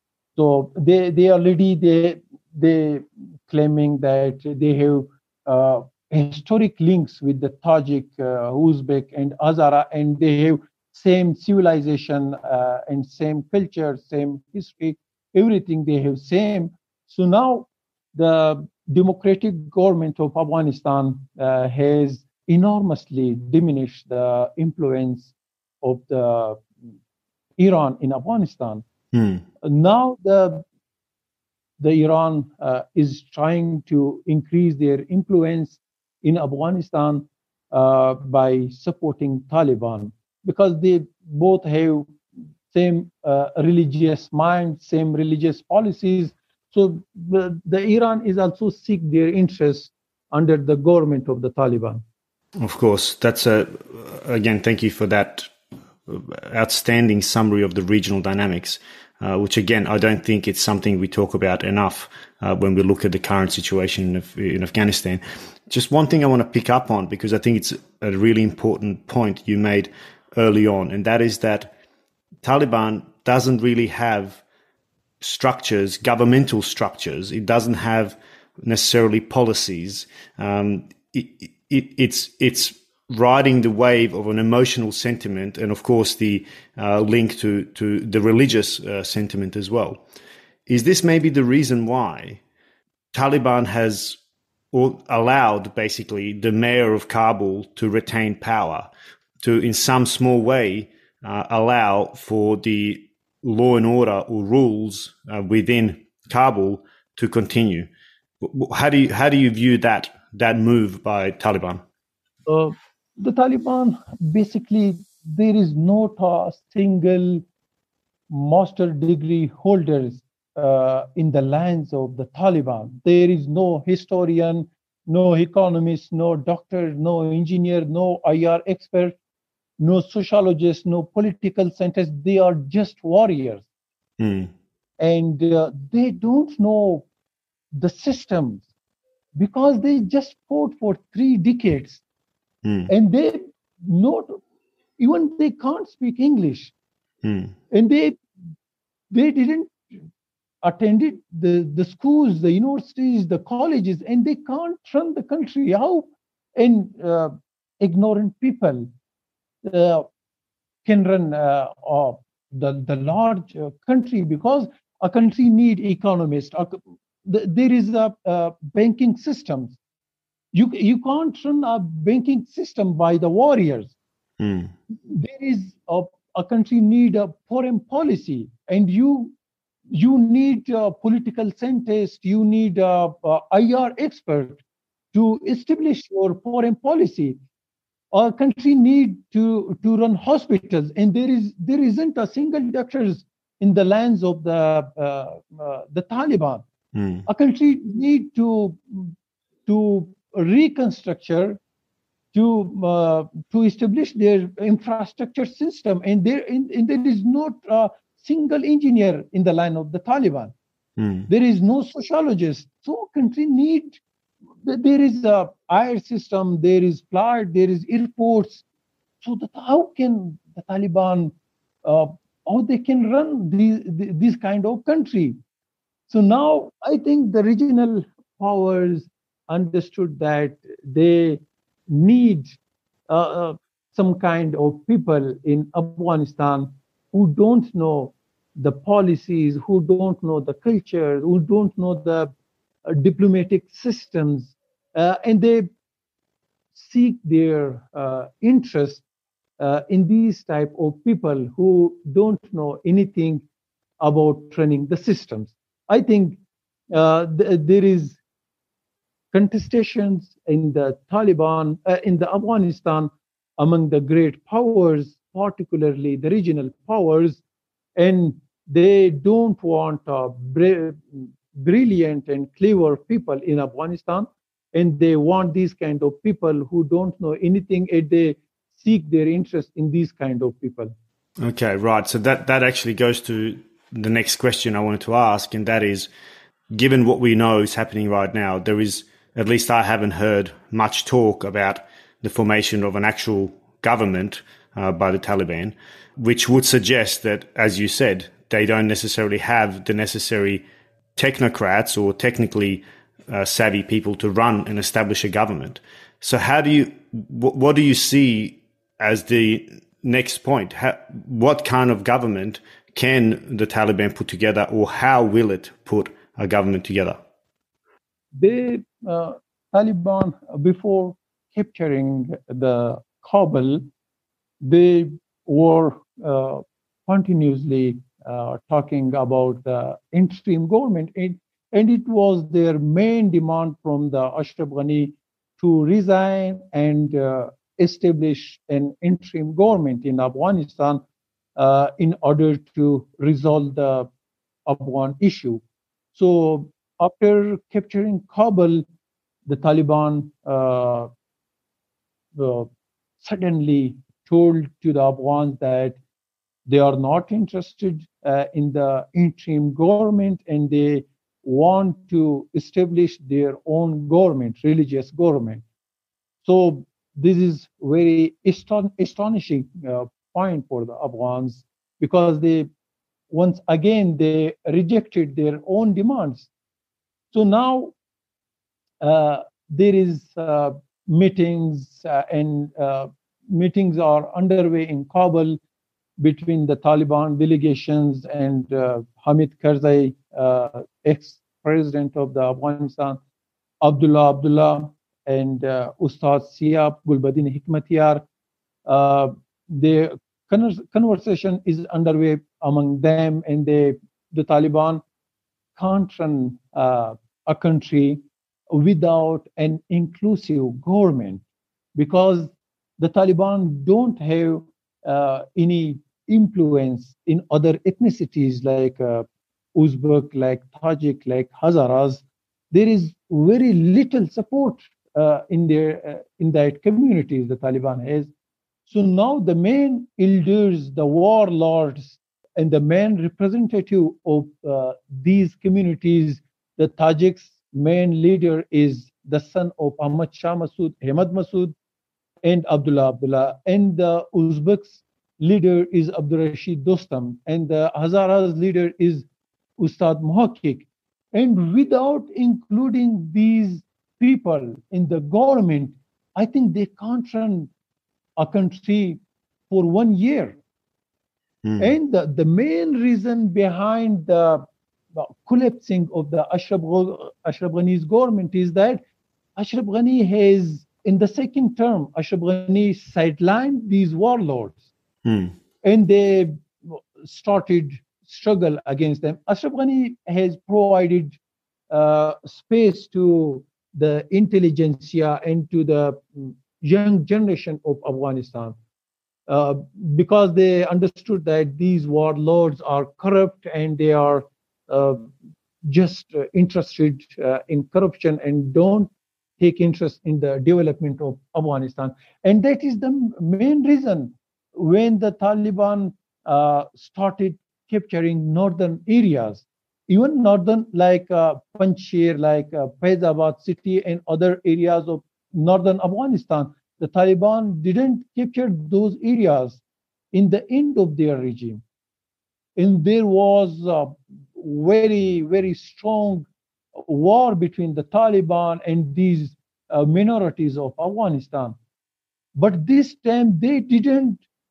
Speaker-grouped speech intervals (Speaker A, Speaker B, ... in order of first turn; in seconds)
Speaker A: 0.4-26.7, 27.6-28.9, 29.6-30.6, 31.8-42.2, 42.7-52.0, 112.5-117.4, 118.3-129.2, 129.8-133.7, 135.0-137.1, 137.7-138.7, 139.4-142.0, 142.9-144.4, 145.0-146.7, 147.7-148.2, 149.1-149.8, 150.6-158.9, 159.6-160.1, 160.8-169.8, 170.5-173.9, 174.9-179.3, 179.9-184.6, 185.1-187.4, 188.1-196.6, 197.3-199.1, 199.7-201.6, 202.3-210.5, 211.3-214.0, 214.6-218.6, 219.2-225.4, 226.1-232.6, 233.1-242.3, 242.8-245.7, 246.8-249.0, 249.6-253.4, 254.0-256.4, 256.9-258.2, 259.3-267.4, 268.0-280.9, 318.4-323.8, 324.6-341.0, 341.6-344.1, 344.7-345.6, 346.1-348.9, 349.5-351.1, 352.4-352.7, 353.2-356.0, 356.7-365.6, 366.4-372.7, 373.3-376.5, 377.3-377.9, 379.0-385.6, 386.2-393.2, 393.8-398.2, 398.9-405.0, 405.8-411.4, 411.9-428.3, 428.9-441.7, 442.4-449.3, 449.8-457.7, 458.4-460.6, 461.8-469.0, 469.6-474.8, 475.8-481.4, 481.9-488.8, 489.5-495.3, 495.9-519.8, 520.3-521.8, 522.8-531.8, 532.6-534.4
Speaker B: 29.1-29.4, 52.6-55.5, 56.1-71.7, 72.4-74.4, 75.2-90.0, 90.7-92.4, 93.1-94.2, 94.7-98.9, 99.4-107.9, 108.4-111.8, 134.2-134.5, 142.6-142.9, 147.2-147.6, 174.4-174.7, 196.9-197.3, 211.0-211.3, 281.4-286.1, 286.7-300.6, 301.2-317.2, 461.6-461.9, 475.2-475.5